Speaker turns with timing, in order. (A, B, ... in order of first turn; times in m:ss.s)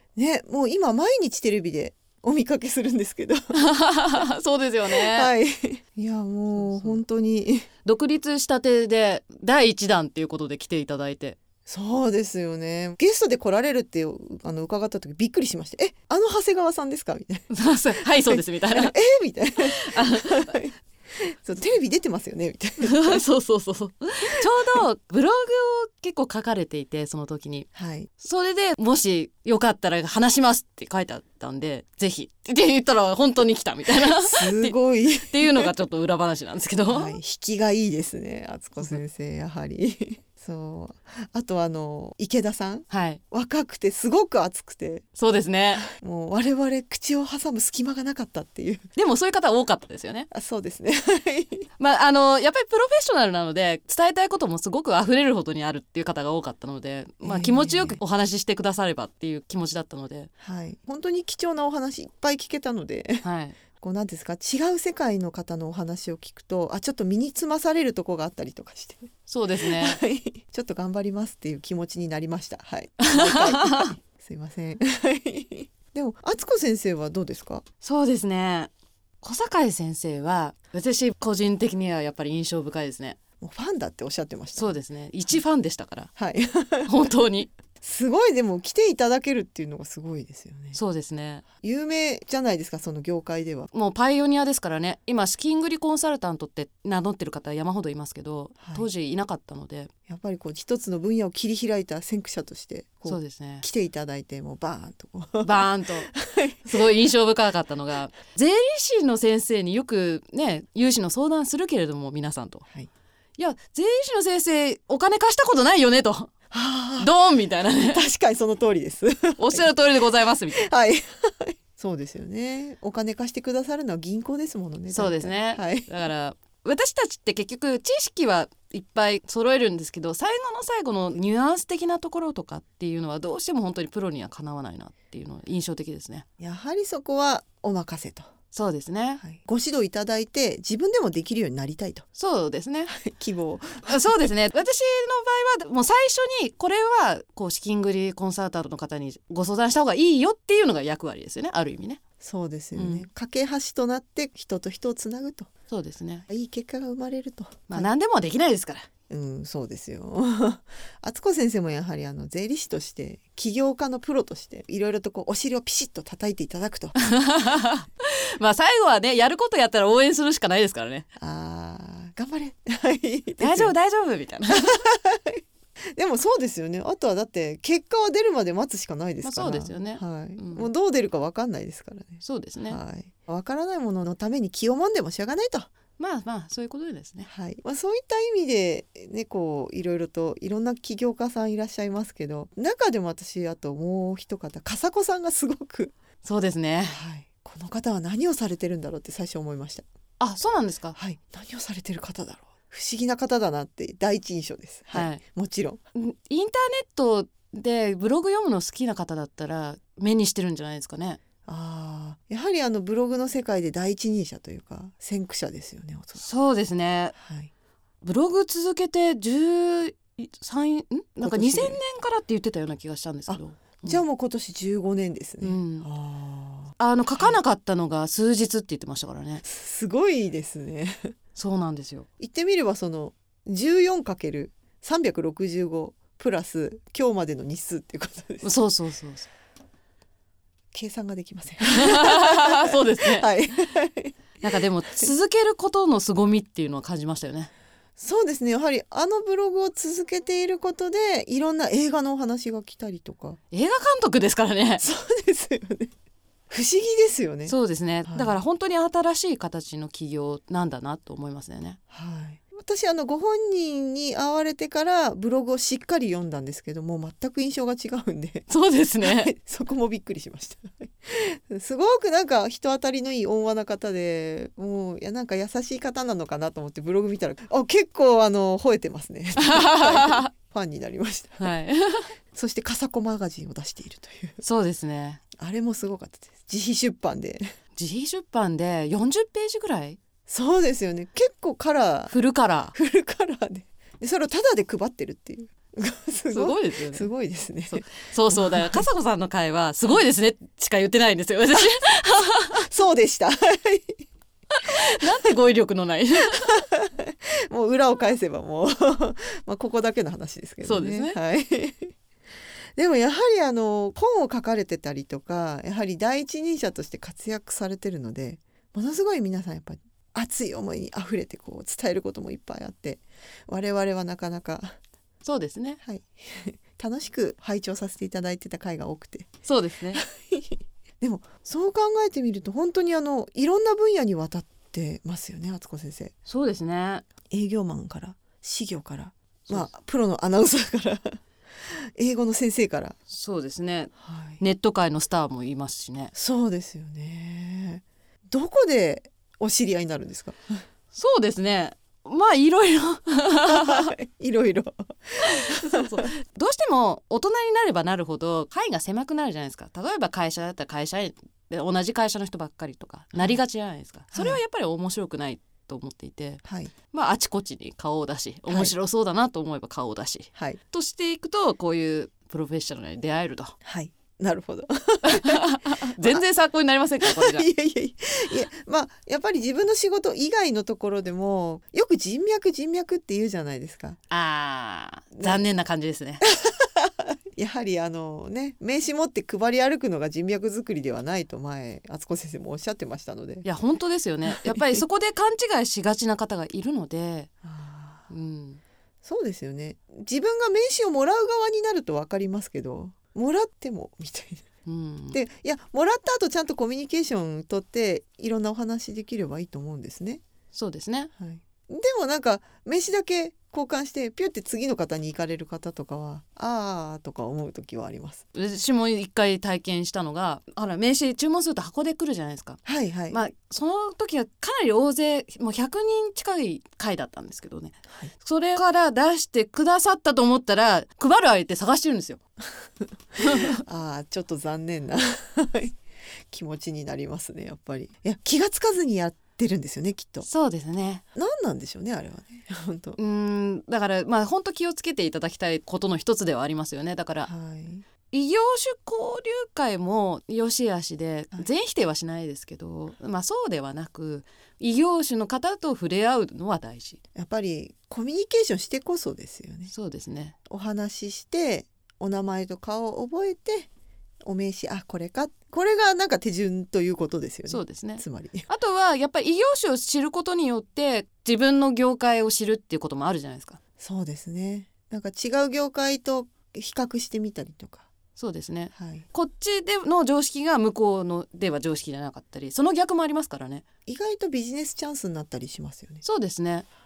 0:00.2-0:03.6 A
0:03.5-0:05.3 B
0:04.9-0:07.7 A
0:06.5-0:07.0 B
0:07.8-0:11.4 B
0:11.7-0:23.2 A
0:17.5-0:19.0 B
0:19.7-0:20.5 B
0:22.8-0:27.7 B
0:27.8-0:28.1 A
0:28.2-0:37.2 B
0:33.9-0:35.8 A
0:36.9-0:45.0 A
0:42.9-0:43.2 B
0:45.2-0:45.8 B
0:45.9-0:48.9 A
0:49.0-0:50.3 B
0:50.3-0:51.7 A
0:51.8-1:00.3 B
0:57.2-0:58.0 A
1:00.4-1:03.2 A
1:03.2-1:03.6 B
1:03.8-1:17.6 A
1:09.3-1:10.0 B
1:13.0-1:13.9 B
1:17.8-1:23.2 B
1:23.4-1:25.4 A
1:24.6-1:26.1 B
1:26.2-1:27.0 A
1:26.9-1:27.5 B
1:27.8-1:30.8 A
1:30.7-1:31.4 B
1:31.6-1:33.7 A
1:33.7-1:39.9 B
1:38.6-1:38.9 A
1:40.1-1:46.8 A
1:43.0-1:43.7 B
1:45.4-1:46.1 B
1:46.6-1:52.6 B
1:53.4-1:56.3 B
1:56.5-1:57.2 A
1:57.0-1:58.0 B
1:57.7-1:59.8 A
1:59.4-2:00.7 B
2:00.5-2:06.0 A
2:04.9-2:16.2 B
2:16.4-2:18.3 A
2:18.5-2:19.2 B
2:19.2-2:22.0 A
2:22.2-2:22.9 B
2:22.9-2:24.3 A
2:23.9-2:32.0 B
2:32.2-2:35.5 A
2:32.8-2:33.1 B
2:35.7-2:36.3 B
2:36.3-2:37.9 A
2:37.7-2:38.9 B
2:39.1-2:47.0 A
2:47.0-2:51.1 B
2:51.2-2:53.8 A
2:53.4-2:54.8 B
2:54.5-2:55.4 A
2:56.0-3:05.7 A
2:59.2-3:00.7 B
3:02.2-3:02.8 B
3:06.0-3:07.3 B
3:07.3-3:15.9 A
3:16.2-3:17.0 B
3:16.9-3:19.8 A
3:20.2-3:21.0 B
3:21.0-3:25.8 A
3:24.9-3:25.2 B
3:25.9-3:31.2 B
3:31.5-3:36.2 A
3:36.2-3:37.2 B
3:37.2-3:37.5 A
3:38.0-3:44.0 B
3:41.2-3:41.8 A
3:43.3-3:47.4 A
3:45.4-3:45.9 B
3:46.8-3:49.4 B
3:49.4-3:51.1 A
3:51.4-3:52.1 B
3:52.2-3:58.5 A
3:58.4-3:59.3 B
4:00.7-4:05.1 A
4:01.7-4:03.3 B
4:04.4-4:07.5 B
4:08.0-4:13.4 A
4:13.5-4:14.8 B
4:14.8-4:15.9 A
4:16.5-4:18.4 A
4:17.5-4:21.8 B
4:21.9-4:28.5 A
4:28.5-4:29.3 B
4:29.0-4:41.5 A
4:39.4-4:40.3 B
4:41.4-4:42.1 B
4:42.3-4:44.4 A
4:44.4-4:45.2 B
4:45.4-4:47.5 A
4:47.8-4:50.0 B
4:50.3-4:52.2 A
4:52.1-4:52.7 B
4:52.7-4:58.9 A
4:56.3-4:57.1 B
4:57.7-5:02.7 B
5:01.5-5:01.8 A
5:02.5-5:04.0 A
5:04.5-5:06.6 B
5:06.3-5:11.9 A
5:10.6-5:11.2 B
5:12.8-5:24.8 A
5:25.2-5:25.8 B
5:25.8-5:29.3 A
5:29.4-5:30.0 B
5:29.9-5:36.1 A
5:36.3-5:37.0 B
5:37.3-5:41.2 A
5:42.0-5:43.0 A
5:43.1-5:46.1 B
5:44.0-5:44.4 A
5:46.1-5:50.6 A
5:50.9-5:53.9 B
5:53.5-5:56.1 A
5:55.2-6:13.5 B
6:04.1-6:04.4 A
6:06.4-6:06.7 A
6:08.5-6:08.7 A
6:10.4-6:10.6 A
6:13.6-6:16.2 A
6:15.0-6:17.5 B
6:17.0-6:24.0 A
6:24.1-6:26.2 B
6:25.2-6:25.5 A
6:26.2-6:33.5 A
6:33.4-6:37.3 B
6:34.2-6:34.8 A
6:37.4-6:38.1 A
6:38.1-6:38.6 B
6:39.0-6:44.4 A
6:44.7-6:45.2 B
6:45.1-6:50.2 A
6:50.5-6:51.1 B
6:51.2-6:58.2 A
6:58.3-7:12.2 B
7:02.6-7:03.2 A
7:13.2-7:13.6 B
7:13.3-7:15.8 A
7:16.3-7:20.3 A
7:20.2-7:21.0 B
7:21.1-7:23.0 A
7:23.0-7:27.3 B
7:27.2-7:27.8 A
7:28.1-7:37.0 B
7:37.2-7:39.7 A
7:39.7-7:40.4 B
7:40.5-7:43.7 A
7:44.2-7:48.5 A
7:47.5-7:53.6 B
7:53.8-7:57.9 A
7:58.2-8:03.6 B
7:58.8-7:59.1 A
8:03.9-8:06.0 A
8:06.0-8:06.7 B